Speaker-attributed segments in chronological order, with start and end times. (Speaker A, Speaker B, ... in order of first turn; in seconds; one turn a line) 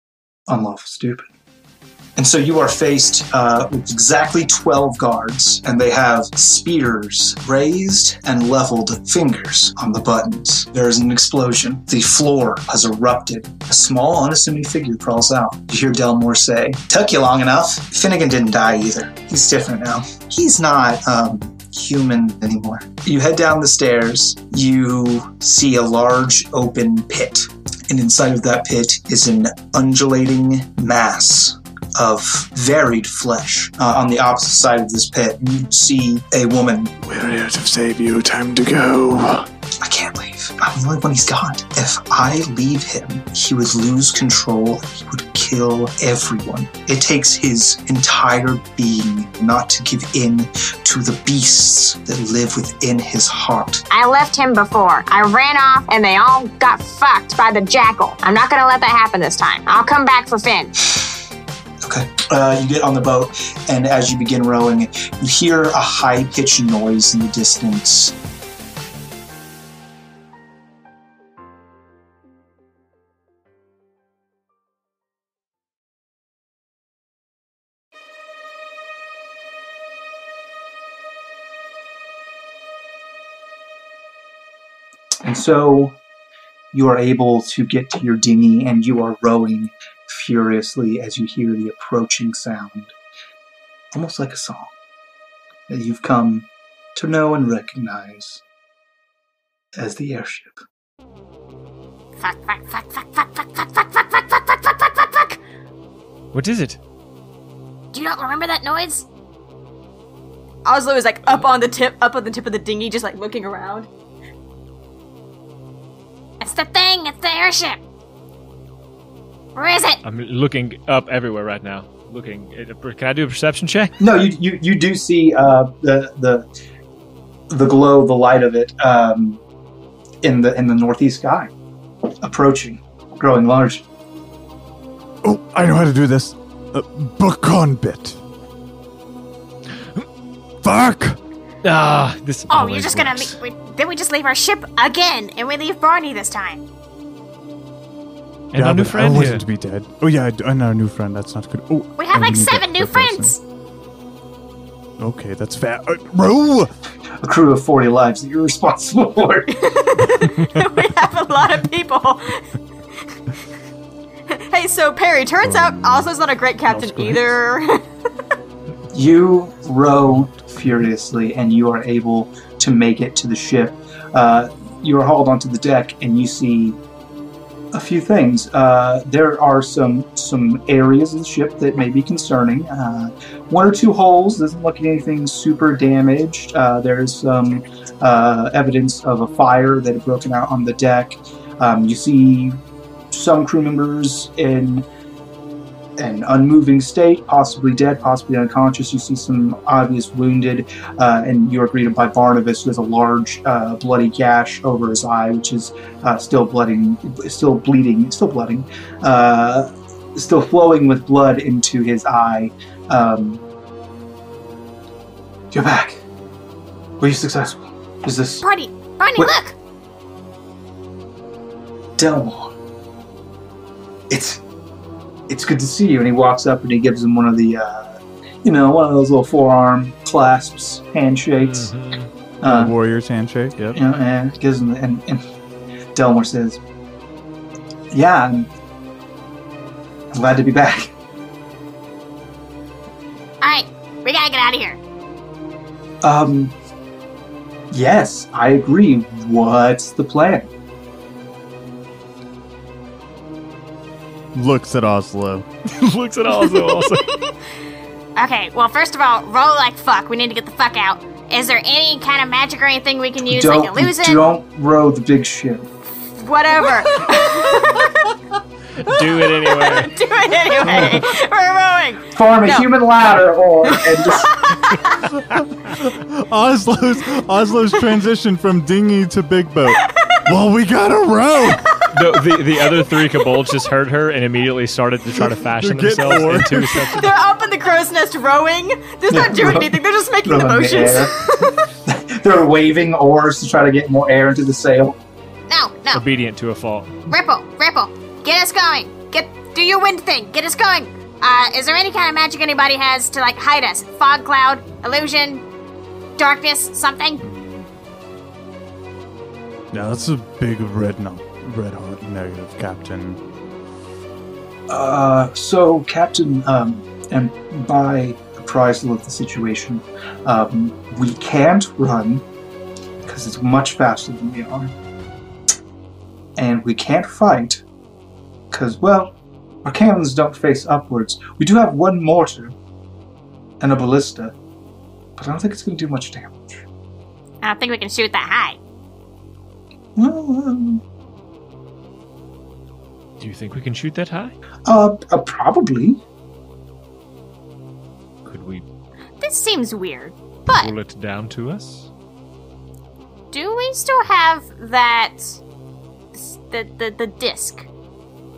Speaker A: 0.5-1.3
Speaker A: 2.2-36.9
Speaker B: 37.0-39.5
Speaker A: 39.8-53.8
Speaker C: 53.9-60.9
Speaker A: 61.8-68.1
Speaker A: 85.2-86.0
Speaker A: 86.7-92.9
Speaker A: 93.9-94.7
Speaker A: 95.7-98.4
Speaker A: 99.8-100.6
Speaker C: 102.2-105.4
Speaker D: 106.3-106.8
Speaker C: 107.9-109.0
Speaker E: 110.6-113.9
Speaker C: 116.4-117.8
Speaker C: 119.5-120.0
Speaker D: 120.0-124.0
Speaker A: 124.0-126.5
Speaker A: 127.5-129.4
Speaker A: 130.2-131.5
Speaker A: 132.2-133.8
Speaker B: 135.2-138.2
Speaker B: 140.6-141.2
Speaker D: 141.6-143.4
Speaker C: 142.5-146.6
Speaker D: 148.5-149.4
Speaker B: 148.5-153.3
Speaker C: 152.0-153.4
Speaker B: 155.0-156.7
Speaker A: 157.2-159.5
Speaker E: 159.5-162.4
Speaker E: 164.3-167.8
Speaker B: 165.6-166.0
Speaker B: 166.7-167.3
Speaker A: 168.9-176.8
Speaker A: 177.7-192.6
Speaker A: 193.1-194.8
Speaker A: 196.0-213.4
Speaker A: 215.5-216.0
Speaker A: 217.0-218.4
Speaker C: 218.4-219.6
Speaker A: 222.0-222.5
Speaker A: 224.1-224.4
Speaker A: 225.3-231.7
Speaker D: 231.4-232.1
Speaker A: 232.4-232.7
Speaker B: 232.4-233.8
Speaker A: 233.7-235.2
Speaker A: 235.9-236.6
Speaker A: 237.9-238.5
Speaker A: 240.1-240.9
Speaker C: 243.4-244.8
Speaker A: 246.0-246.5
Speaker A: 247.7-250.5
Speaker B: 254.3-255.5
Speaker D: 255.7-257.1
Speaker E: 256.6-256.9
Speaker C: 258.1-264.2
Speaker A: 263.2-265.7
Speaker E: 266.2-267.9
Speaker D: 268.8-269.9
Speaker E: 269.2-270.0
Speaker C: 269.7-272.1
Speaker A: 272.1-274.4
Speaker E: 273.7-274.5
Speaker B: 275.3-281.7
Speaker D: 281.9-287.1
Speaker E: 282.8-283.0
Speaker B: 285.1-287.1
Speaker E: 286.9-291.6
Speaker A: 289.1-291.1
Speaker A: 291.9-295.0
Speaker C: 295.5-296.0
Speaker D: 295.9-297.0
Speaker C: 297.1-305.4
Speaker C: 306.2-307.2
Speaker B: 307.2-307.7
Speaker B: 309.7-313.2
Speaker A: 314.7-322.2
Speaker A: 323.0-324.7
Speaker A: 326.4-327.6
Speaker A: 328.5-332.5
Speaker A: 333.6-334.3
Speaker A: 335.2-336.6
Speaker C: 337.4-338.6
Speaker A: 339.9-340.8
Speaker D: 343.2-344.3
Speaker A: 344.7-346.0
Speaker D: 348.2-348.6
Speaker C: 349.2-350.7
Speaker D: 350.5-351.9
Speaker C: 353.3-355.4
Speaker C: 356.1-357.7